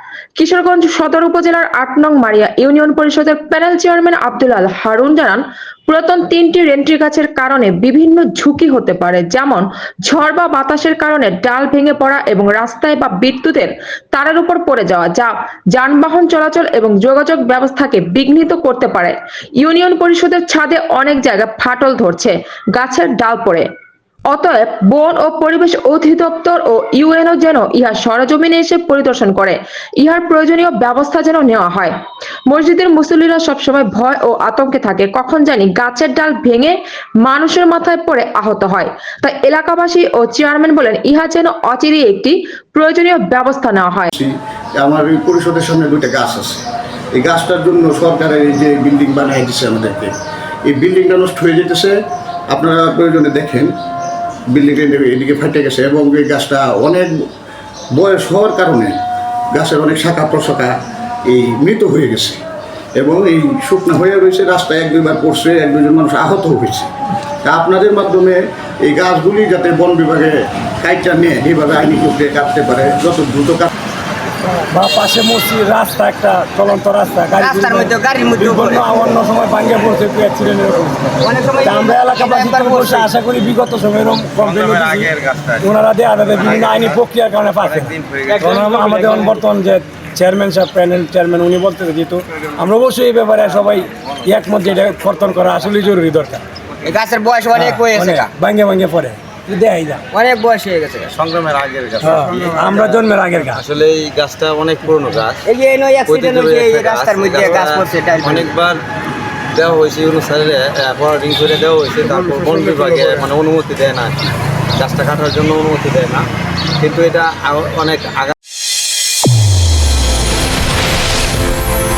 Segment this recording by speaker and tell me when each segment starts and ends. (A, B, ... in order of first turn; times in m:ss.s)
0:00.4-0:23.7 A
0:24.3-0:32.0 A
0:32.5-0:44.1 A
0:44.1-0:46.6 B
0:47.1-0:50.1 B
0:50.7-0:52.0 B
0:52.5-0:53.7 B
0:54.5-0:57.2 B
0:57.9-0:59.0 B
0:59.5-1:02.4 B
1:03.0-1:06.9 B
1:07.4-1:13.7 B
1:14.7-1:25.1 C
1:17.4-1:18.9 D
1:21.2-1:23.1 D
1:24.4-1:25.7 E
1:25.6-1:36.4 C
1:26.3-1:27.0 E
1:27.6-1:29.4 E
1:28.4-1:29.3 D
1:36.8-1:38.3 D
1:37.5-1:40.0 C
1:40.1-1:41.1 D
1:41.1-1:45.4 E
1:42.0-1:43.6 C
1:45.5-1:48.5 D
1:46.0-1:48.8 E
1:49.5-1:56.2 E
1:56.8-1:58.3 E